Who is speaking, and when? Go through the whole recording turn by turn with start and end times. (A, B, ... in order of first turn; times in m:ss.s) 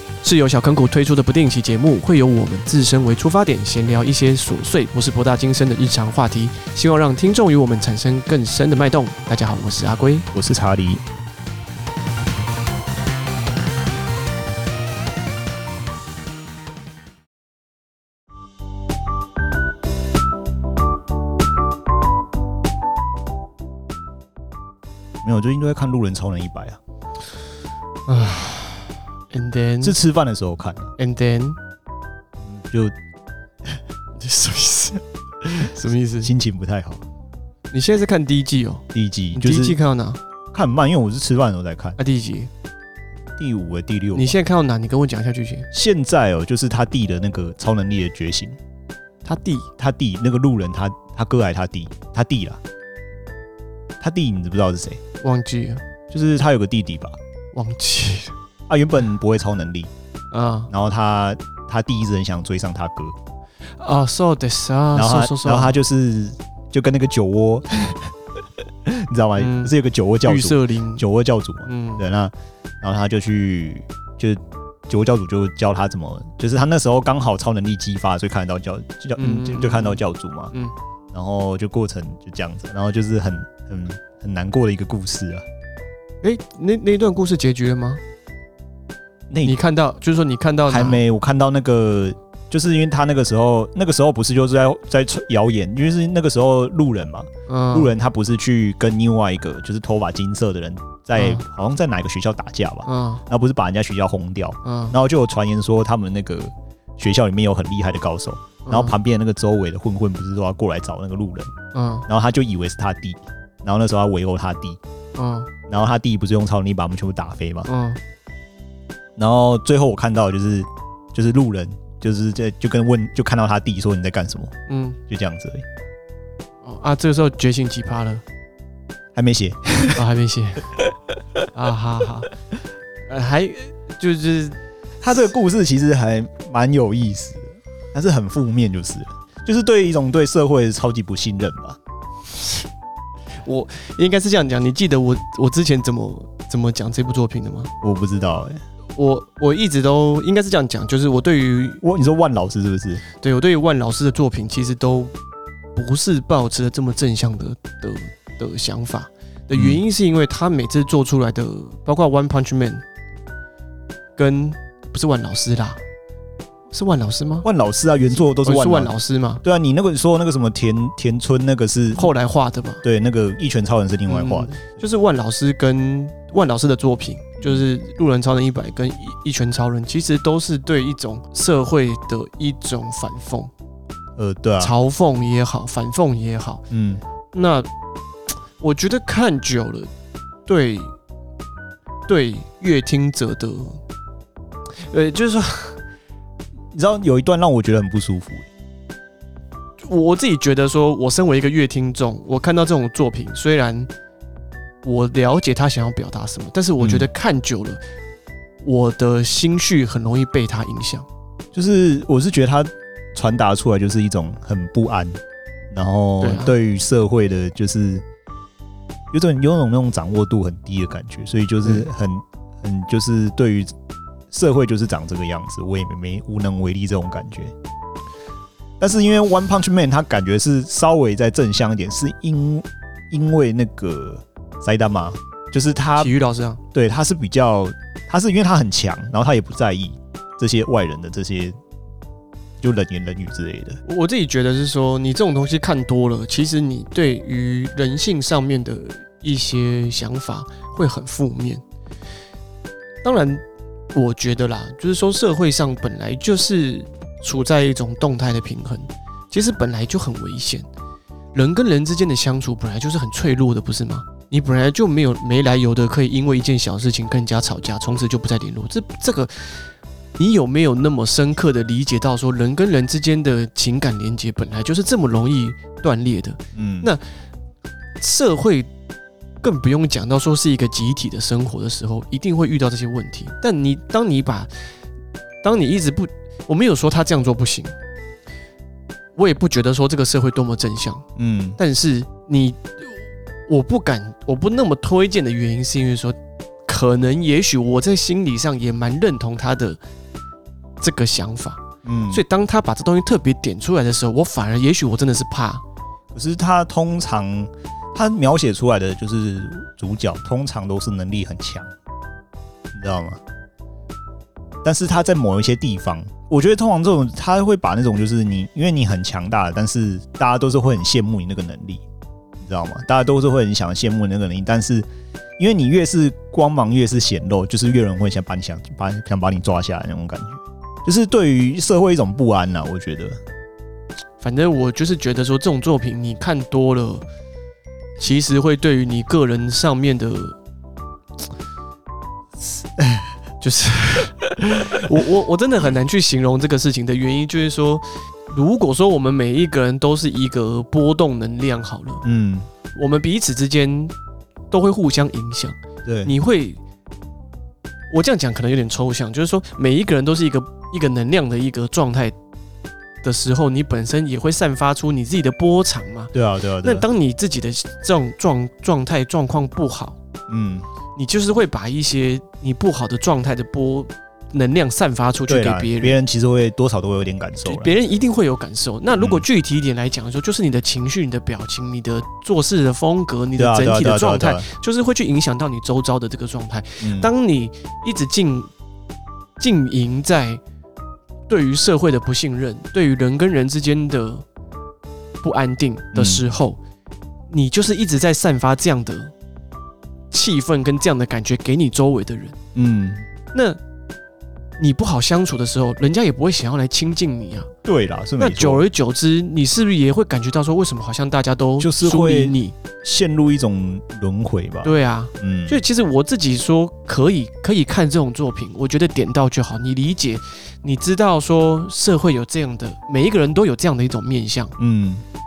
0:00.2-0:10.3 A
0:10.3-0:11.0 B
0:25.2-0:26.8 B
0:28.1-0:30.0 A
0:29.8-0:30.9 B
0:31.0-0:31.6 A
0:32.4-0:32.9 B
0:34.2-0:36.3 A
0:36.2-0:37.0 B
0:37.7-0:40.2 A
0:38.9-0:39.8 B
0:40.5-0:42.0 B
0:42.0-0:42.5 A
0:43.4-0:44.4 B
0:44.1-0:45.7 A
0:45.7-0:48.6 B
0:49.2-0:49.7 A
0:49.8-0:52.6 B
0:54.0-0:55.0 B
0:55.2-0:55.8 A
0:56.1-0:57.2 B
0:57.5-0:58.3 A
0:58.7-0:59.9 B
1:00.3-1:00.7 A
1:00.7-1:03.2 B
1:03.8-1:05.8 A
1:04.9-1:08.1 B
1:08.8-1:20.5 B
1:09.4-1:09.7 A
1:10.2-1:11.0 A
1:11.6-1:12.0 A
1:19.2-1:20.7 A
1:21.1-1:25.4 B
1:26.2-1:28.0 A
1:29.3-1:29.6 B
1:29.4-1:31.0 A
1:30.7-1:51.5 B
1:37.5-1:37.9 A
1:41.1-1:41.4 A
1:42.8-1:43.2 A
1:44.6-1:44.9 A
1:48.6-1:48.9 A
1:51.7-1:52.1 A
1:52.1-1:54.8 B
1:55.2-1:55.5 A
1:55.7-1:57.7 B
1:57.6-1:58.0 A
1:59.2-2:04.5 B
2:04.7-2:05.0 A
2:05.1-2:05.6 B
2:06.6-2:08.2 A
2:09.1-2:10.0 B
2:09.9-2:10.8 A
2:11.5-2:12.3 A
2:13.1-2:14.6 A
2:15.0-2:21.8 B
2:23.4-2:27.7 A
2:27.8-2:28.6 B
2:29.0-2:31.8 A
2:31.8-2:33.0 B
2:33.2-2:35.1 A
2:35.7-2:42.8 A
2:39.5-2:39.8 B
2:44.2-2:45.8 A
2:46.7-2:47.5 A
2:47.4-2:52.1 B
2:48.4-2:49.4 A
2:52.0-2:52.8 A
2:52.8-2:54.6 B
2:54.1-3:03.5 A
3:04.2-3:04.7 B
3:04.6-3:06.6 A
3:06.7-3:07.0 B
3:07.3-3:07.7 A
3:08.6-3:09.9 A
3:10.4-3:10.9 A
3:12.1-3:13.8 A
3:14.8-3:15.8 A
3:16.7-3:18.5 B
3:19.8-3:23.9 A
3:24.8-3:27.8 A
3:26.8-3:27.1 B
3:28.6-3:31.0 A
3:31.5-3:35.2 B
3:35.7-3:38.0 B
3:36.2-3:36.6 A
3:39.1-3:43.7 B
3:44.3-3:47.5 B
3:48.8-3:56.1 B
3:56.0-3:56.6 A
3:56.7-4:01.5 B
4:02.6-4:03.8 B
4:03.8-4:11.6 A
4:13.0-4:13.4 A
4:13.9-4:20.7 A
4:21.3-4:37.0 A
4:36.5-4:36.9 B
4:38.0-4:38.7 A
4:39.4-4:44.8 A
4:45.4-4:47.7 A
4:49.2-4:51.0 A
4:51.2-4:51.6 B
4:51.6-4:59.8 A
5:00.8-5:01.6 A
5:01.8-5:02.2 B
5:02.1-5:05.6 A
5:06.1-5:11.7 B
5:12.7-5:13.2 B
5:14.6-5:21.8 B
5:22.4-5:33.2 B
5:34.2-5:37.0 A
5:38.0-5:40.4 A
5:42.8-5:43.0 B
5:43.4-5:52.0 A
5:52.0-5:52.5 B
5:52.7-5:53.9 A
5:54.5-5:56.6 A
5:55.8-5:56.1 B
5:57.9-6:02.1 A
6:03.0-6:10.0 A
6:06.1-6:06.9 B
6:10.3-6:10.6 B
6:11.0-6:16.0 A
6:15.3-6:17.8 B
6:17.4-6:28.5 A
6:19.0-6:19.2 B
6:23.4-6:24.5 B
6:26.8-6:27.1 B
6:29.4-6:30.4 A
6:31.3-6:34.2 A
6:35.2-6:36.6 A
6:35.9-6:36.3 B
6:37.3-6:39.1 A
6:40.1-6:42.3 A
6:42.5-6:43.0 B
6:43.3-6:43.6 A
6:44.6-6:47.5 A
6:47.6-6:48.6 B
6:48.2-6:52.6 A
6:51.6-6:55.6 B
6:54.6-7:04.5 A
7:04.6-7:05.0 B